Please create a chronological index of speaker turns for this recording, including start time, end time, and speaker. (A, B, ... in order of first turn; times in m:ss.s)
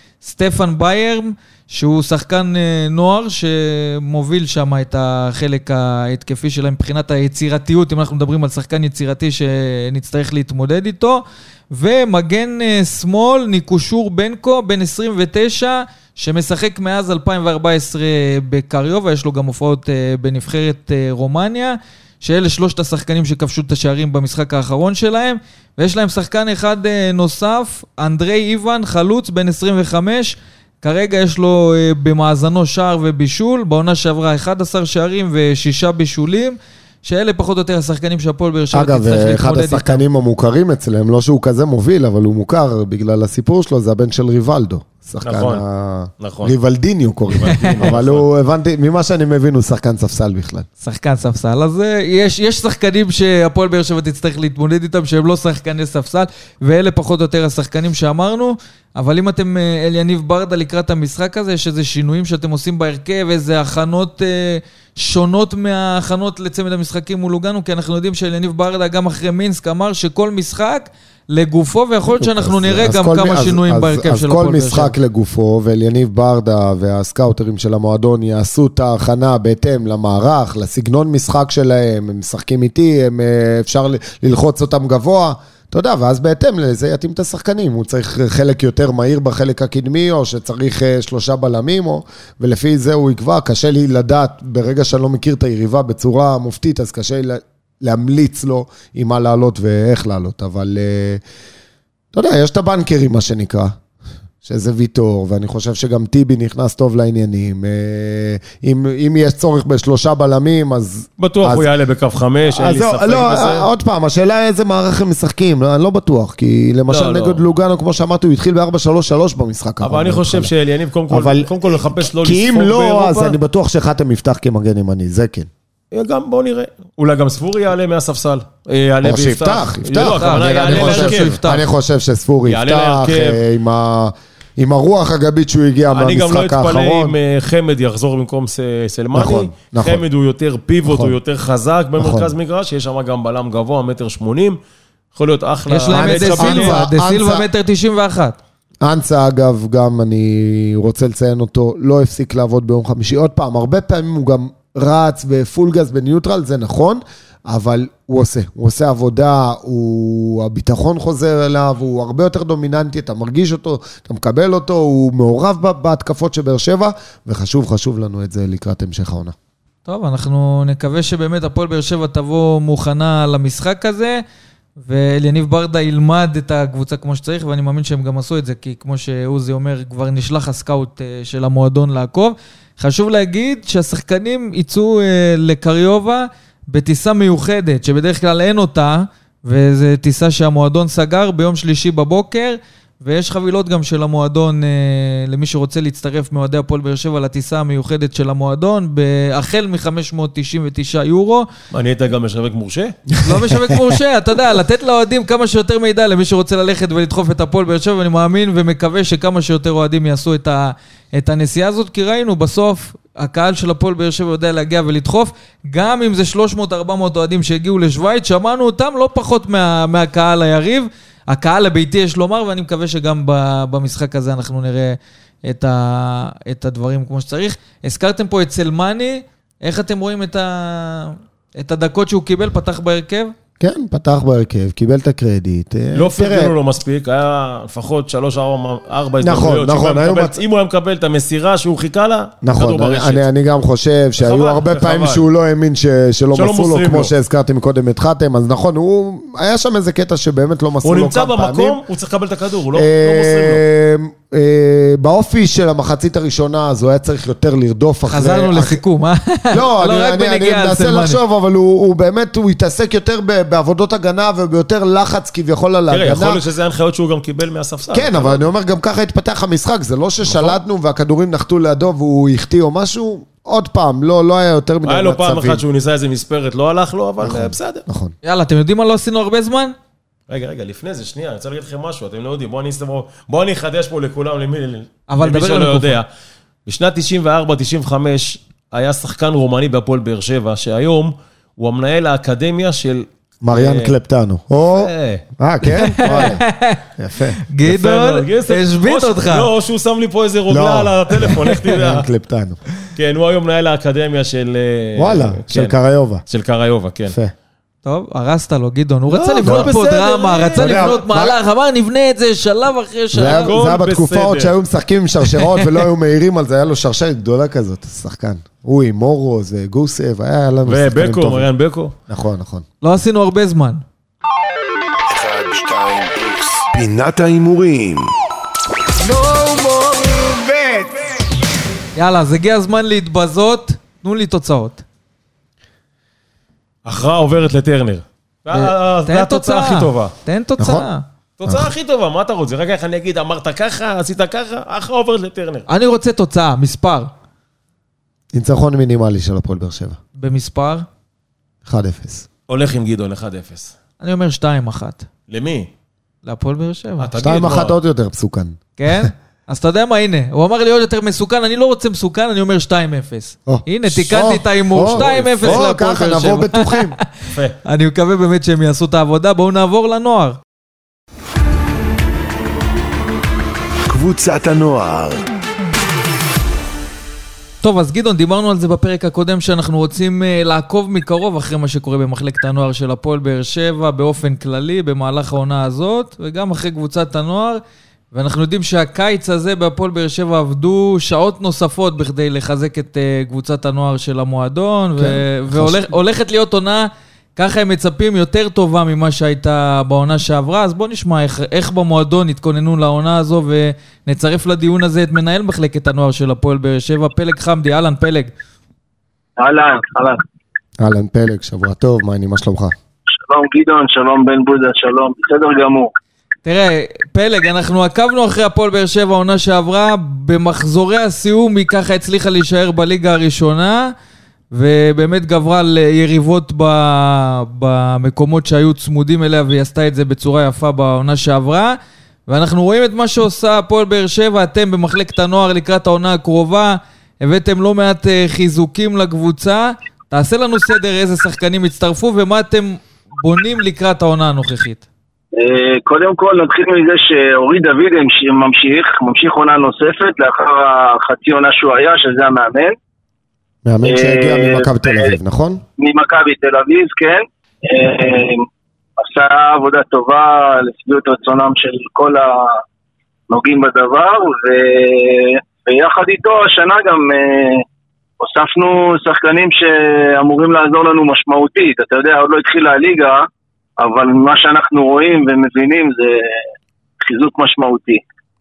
0:00.2-0:40.0 A
0:38.7-0:50.6 B
0:45.2-0:45.6 C
0:46.2-0:46.5 C
0:47.3-0:48.2 C
0:50.8-1:14.9 A
1:12.1-1:41.2 B
1:42.1-1:43.7 B
1:44.4-1:51.6 B
1:51.2-1:53.7 C
1:52.5-2:00.5 B
1:56.9-1:57.4 C
1:59.8-2:03.4 C
2:01.1-2:05.5 B
2:05.9-2:11.4 C
2:09.0-2:17.2 B
2:10.0-2:11.6 A
2:12.4-2:13.4 C
2:15.9-2:24.6 C
2:19.1-2:20.0 B
2:20.8-2:21.1 B
2:22.0-2:22.3 B
2:25.1-2:26.8 C
2:25.7-2:28.4 A
2:25.9-2:27.5 B
2:28.8-2:49.3 B
2:49.8-2:54.2 A
2:54.8-3:21.5 A
3:21.7-3:23.0 C
3:23.2-3:53.3 A
3:23.3-3:23.9 B
3:53.6-3:56.5 B
3:55.9-4:03.2 C
3:59.2-4:00.4 B
4:02.4-4:11.8 B
4:04.2-4:05.2 C
4:06.3-4:07.1 C
4:10.8-4:13.6 C
4:12.7-4:18.8 B
4:18.1-4:21.2 A
4:19.5-4:26.4 B
4:25.9-4:28.5 C
4:27.9-4:35.6 B
4:30.2-4:30.6 C
4:34.8-4:37.8 C
4:37.2-4:38.1 B
4:38.2-4:39.7 A
4:40.3-4:46.0 C
4:45.1-4:46.0 A
4:46.6-4:53.9 C
4:53.4-4:56.4 B
4:54.7-4:55.2 C
4:55.8-4:56.8 A
4:57.0-4:57.4 B
4:57.5-4:59.5 A
4:57.6-5:02.0 C
5:00.5-5:02.6 B
5:02.9-5:05.7 C
5:05.0-5:06.2 B
5:06.3-5:07.2 C
5:07.8-5:13.5 A
5:09.1-5:11.0 C
5:09.4-5:09.7 B
5:10.6-5:11.4 B
5:13.1-5:21.5 B
5:13.2-5:14.5 C
5:20.6-5:21.9 C
5:22.1-5:22.6 B
5:22.8-5:23.8 A
5:25.1-5:28.1 D
5:29.0-5:31.1 D
5:32.0-5:34.8 A
5:36.8-5:40.1 C
5:38.5-5:41.0 A
5:40.6-5:40.8 B
5:41.4-5:45.6 C
5:41.5-5:41.7 B
5:45.7-5:47.1 A
5:48.3-5:50.0 B
5:50.2-5:50.8 A
5:51.6-5:52.2 B
5:52.5-5:53.7 C
5:54.0-5:55.0 A
5:55.3-5:55.7 C
5:56.2-5:57.1 A
5:57.0-5:57.8 C
5:57.2-5:59.1 B
5:58.8-6:07.0 A
6:03.5-6:07.0 B
6:04.9-6:05.6 C
6:07.3-6:07.6 C
6:07.6-6:10.4 A
6:13.9-6:15.2 D
6:17.6-6:27.6 A
6:28.1-6:48.3 A
6:35.0-6:35.9 B
6:49.4-6:50.2 E
6:50.8-6:52.7 B
6:53.3-6:55.9 E
6:56.4-7:03.9 A
7:04.5-7:11.8 A
7:12.3-7:24.8 A
7:25.4-7:32.8 E
7:33.6-7:35.6 B
7:33.8-7:35.1 E
7:35.8-7:38.4 E
7:39.0-7:42.6 E
7:43.3-7:47.6 E
7:48.2-7:53.3 E
7:53.8-7:56.4 E
7:57.0-7:58.0 E